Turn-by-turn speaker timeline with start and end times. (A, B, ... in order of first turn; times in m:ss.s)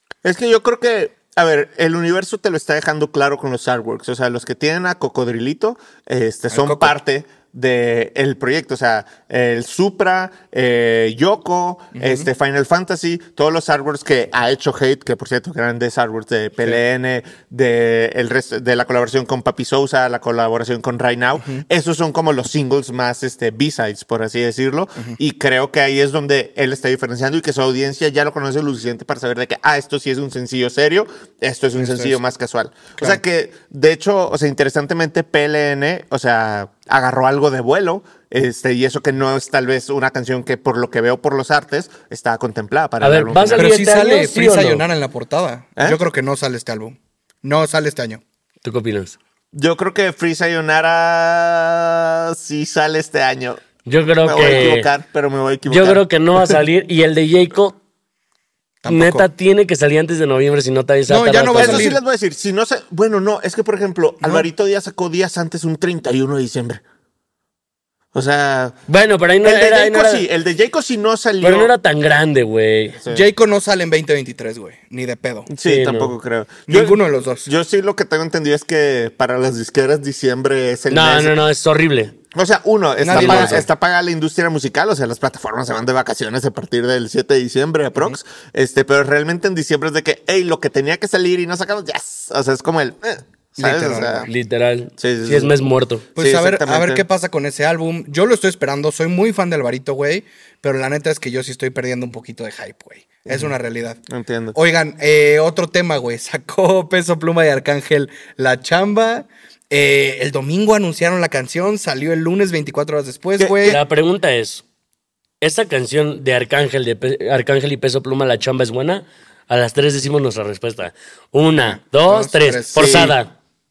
0:00.2-0:43.7 A
0:06.5-0:07.0 B
0:11.9-0:12.3 B
0:31.8-0:32.2 B
0:43.0-0:44.8 C
0:43.6-0:48.2 B
0:48.6-0:49.2 C
0:49.5-0:53.6 A
0:53.8-0:54.9 C
0:54.2-0:56.0 A
0:55.7-0:57.8 C
0:58.8-0:59.3 B
0:58.9-1:01.9 C
1:01.1-1:02.0 B
1:01.6-1:06.8 A
1:04.2-1:04.5 B
1:08.1-1:08.8 A
1:08.9-1:10.2 C
1:09.4-1:11.7 A
1:11.4-1:13.0 C
1:13.0-1:13.2 A
1:13.1-1:15.5 B
1:15.5-1:21.3 A
1:15.6-1:16.1 C
1:16.7-1:17.5 B
1:20.9-1:22.1 C
1:22.3-1:34.3 A
1:23.0-1:23.7 B
1:23.1-1:23.6 C
1:33.6-1:34.3 B
1:34.2-1:36.0 C
1:35.0-1:35.5 A
1:36.2-1:44.0 B
1:36.2-1:37.0 A
1:44.1-1:44.6 A
1:44.5-1:53.8 B
1:53.4-1:53.8 A
1:53.6-1:54.6 C
1:55.4-2:03.3 C
2:01.6-2:03.1 B
2:02.8-2:03.1 A